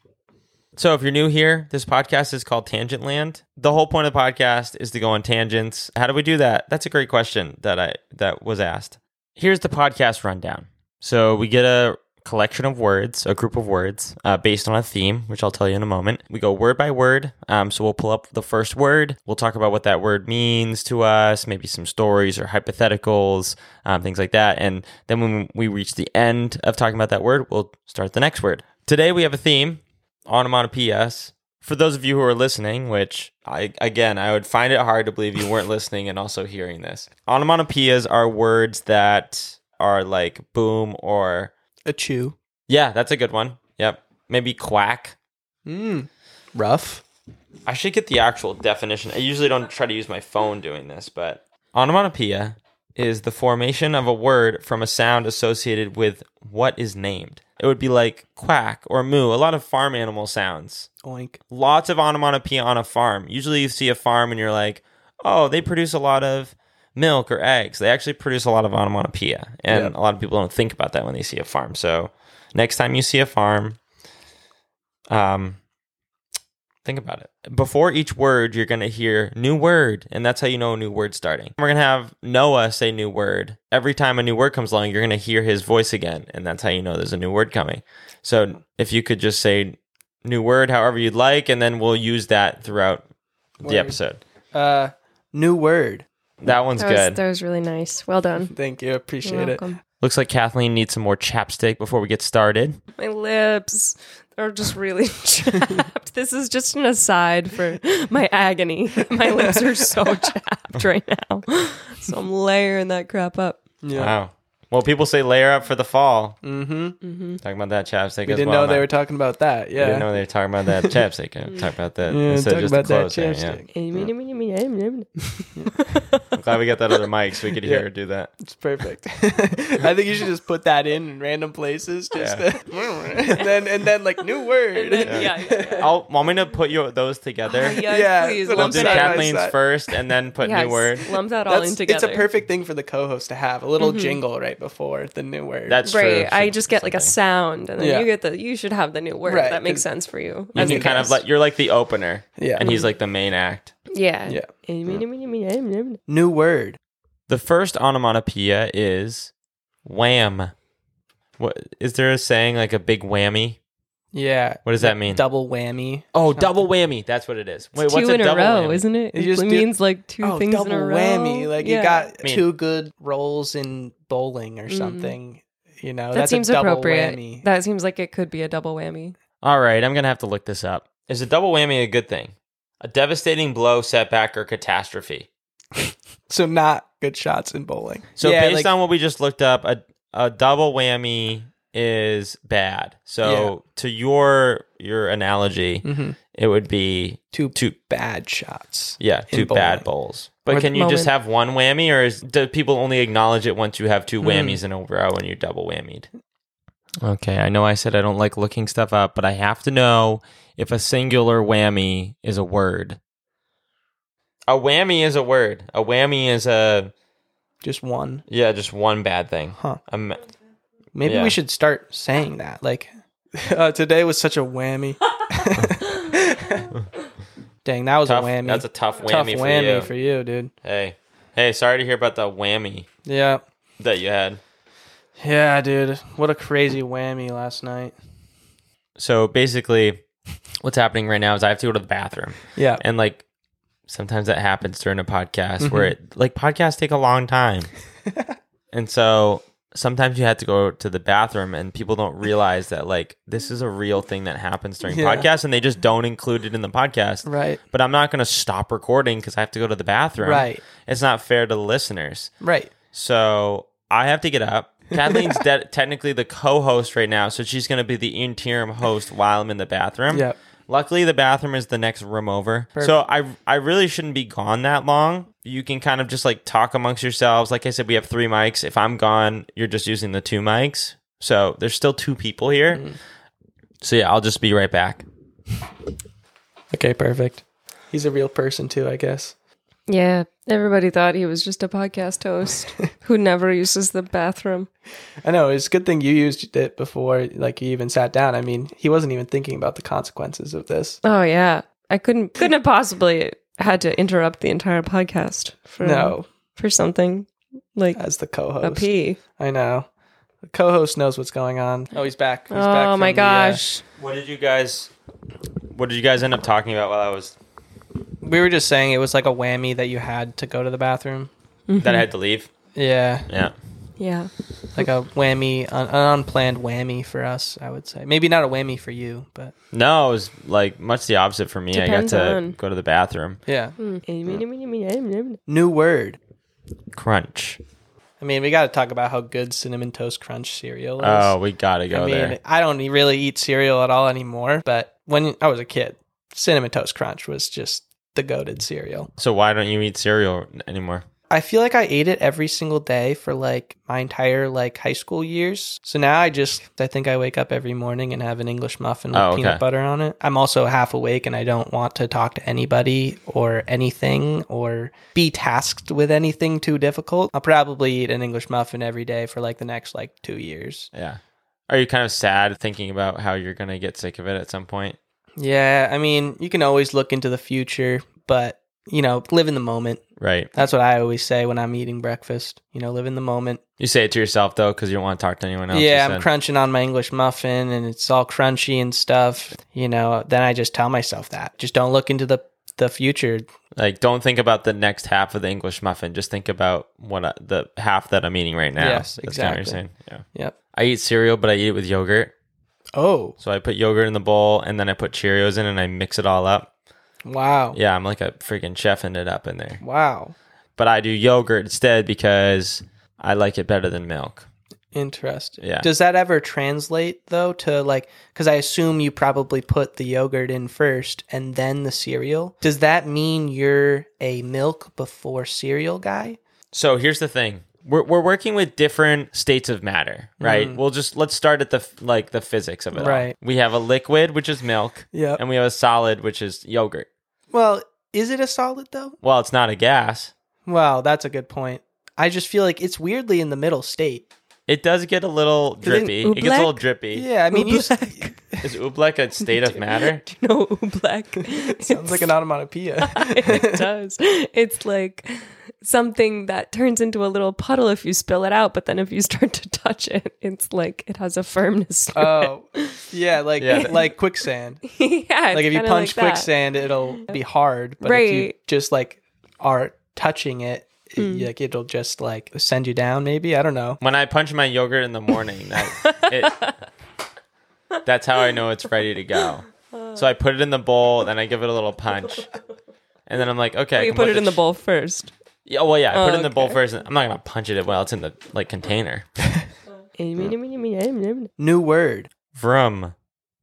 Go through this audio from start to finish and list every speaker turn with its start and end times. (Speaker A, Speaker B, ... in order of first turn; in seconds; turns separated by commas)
Speaker A: 0.8-41.5, Speaker B: 41.9-42.3, Speaker A: 42.7-45.1, Speaker B: 45.6-47.0, Speaker A: 47.6-60.9, Speaker B: 61.0-61.4, Speaker A: 61.5-73.8, Speaker B: 69.7-69.9, Speaker A: 75.1-75.6, Speaker A: 76.8-93.0, Speaker A: 93.6-94.2, Speaker B: 93.6-94.0, Speaker B: 94.5-96.0, Speaker A: 96.4-97.2, Speaker C: 96.8-98.5, Speaker B: 98.5-99.6, Speaker C: 99.2-99.8, Speaker A: 100.0-102.8, Speaker C: 103.0-113.8, Speaker B: 108.9-110.3, Speaker B: 113.8-114.2, Speaker A: 113.9-116.4, Speaker B: 116.4-117.0, Speaker C: 117.0-117.4, Speaker A: 117.4-118.9, Speaker B: 118.2-120.1, Speaker A: 119.8-123.6, Speaker B: 120.6-121.0, Speaker B: 122.0-124.1, Speaker C: 123.7-126.2, Speaker A: 126.3-128.3, Speaker B: 127.6-127.9, Speaker B: 128.4-135.9, Speaker A: 132.1-132.4, Speaker C: 133.2-133.7, Speaker C: 134.2-135.9, Speaker A: 135.0-137.8, Speaker C: 137.5-139.4, Speaker B: 137.8-139.9, Speaker A: 138.5-141.1, Speaker C: 140.4-142.3, Speaker B: 141.5-145.8, Speaker C: 143.8-144.2, Speaker A: 145.7-147.1, Speaker C: 145.8-151.1, Speaker B: 147.8-148.1, Speaker B: 149.2-149.8, Speaker A: 150.5-153.7, Speaker B: 150.6-151.2, Speaker B: 152.4-152.7, Speaker C: 152.6-152.9, Speaker C: 153.9-156.0, Speaker B: 156.1-156.8, Speaker A: 157.3-159.3, Speaker A: 159.8-160.5, Speaker A: 161.4-163.6, Speaker B: 164.1-166.6, Speaker A: 164.6-165.2, Speaker A: 166.1-168.8, Speaker C: 167.8-172.1, Speaker B: 169.1-177.5, Speaker A: 172.2-172.5, Speaker C: 174.7-175.2, Speaker C: 176.1-179.1, Speaker A: 179.4-185.3, Speaker B: 185.7-188.7, Speaker A: 188.2-197.8, Speaker B: 193.2-193.6, Speaker B: 195.8-196.2, Speaker B: 197.3-199.9, Speaker A: 199.0-206.1, Speaker C: 200.7-201.1, Speaker B: 204.2-204.6, Speaker A: 207.0-213.0, Speaker A: 214.5-216.9, Speaker B: 217.6-218.2, Speaker A: 218.3-220.2, Speaker B: 219.5-219.8, Speaker B: 220.9-226.7, Speaker A: 221.0-221.4, Speaker B: 227.6-230.5, Speaker A: 228.0-229.9, Speaker A: 230.6-232.9, Speaker B: 233.0-233.4, Speaker A: 233.8-234.4, Speaker B: 235.2-237.9, Speaker A: 239.0-240.0, Speaker A: 240.6-243.2, Speaker B: 242.5-242.8, Speaker A: 243.9-247.7, Speaker B: 245.6-245.9, Speaker A: 248.7-262.3, Speaker B: 254.9-255.3, Speaker B: 257.2-257.6, Speaker B: 260.2-260.6, Speaker B: 262.4-262.7, Speaker A: 262.9-282.8, Speaker B: 264.9-265.4, Speaker B: 270.1-270.4, Speaker B: 282.7-283.0, Speaker A: 283.8-285.0, Speaker B: 286.7-289.3, Speaker C: 289.9-294.7, Speaker B: 295.2-301.0, Speaker C: 301.0-308.0, Speaker B: 305.8-306.2, Speaker B: 307.9-309.9, Speaker C: 308.6-309.2, Speaker B: 310.4-313.6, Speaker C: 312.5-313.8, Speaker A: 314.0-314.9, Speaker A: 315.7-317.3, Speaker B: 318.2-321.3, Speaker C: 321.7-322.1, Speaker A: 321.8-322.5, Speaker B: 322.7-323.3, Speaker A: 323.3-323.5, Speaker C: 324.0-324.9, Speaker B: 324.8-329.5, Speaker A: 329.7-333.4, Speaker C: 331.7-332.6, Speaker B: 333.4-333.8, Speaker C: 333.8-335.4, Speaker B: 335.5-336.2, Speaker A: 336.9-337.6, Speaker B: 338.2-341.4, Speaker A: 341.0-342.4, Speaker B: 341.9-349.1, Speaker A: 349.2-351.0, Speaker B: 351.3-370.9, Speaker A: 359.1-359.6, Speaker A: 370.9-375.0, Speaker B: 375.4-380.0, Speaker A: 380.2-380.5, Speaker B: 380.5-383.6, Speaker A: 383.8-386.2, Speaker B: 385.7-393.4, Speaker A: 393.8-402.3, Speaker B: 398.8-400.6, Speaker B: 403.0-403.4, Speaker A: 403.4-406.7, Speaker B: 407.2-407.8, Speaker A: 407.7-409.8, Speaker B: 409.8-410.3, Speaker A: 410.8-414.5, Speaker B: 414.9-426.4, Speaker A: 415.6-415.9, Speaker A: 426.7-437.1, Speaker B: 430.4-430.8, Speaker B: 432.9-433.4, Speaker B: 435.1-435.4, Speaker B: 437.5-439.1, Speaker A: 439.2-440.3, Speaker B: 440.6-444.3, Speaker A: 444.7-447.3, Speaker B: 445.8-446.2, Speaker C: 446.0-446.8, Speaker B: 447.1-448.6, Speaker C: 447.5-448.4, Speaker A: 448.6-450.2, Speaker C: 449.4-452.3, Speaker B: 451.7-453.9, Speaker C: 453.0-463.1, Speaker B: 462.1-464.8, Speaker A: 463.6-464.0, Speaker C: 463.6-466.5, Speaker B: 465.5-474.0, Speaker C: 468.0-468.6, Speaker C: 471.2-471.5, Speaker A: 474.0-476.6, Speaker C: 475.8-476.7, Speaker A: 478.1-482.5, Speaker C: 479.4-480.2, Speaker A: 483.3-484.6, Speaker C: 483.9-485.3, Speaker A: 485.6-489.2, Speaker C: 486.1-486.8, Speaker C: 490.2-491.5, Speaker B: 491.6-492.3, Speaker A: 492.5-493.1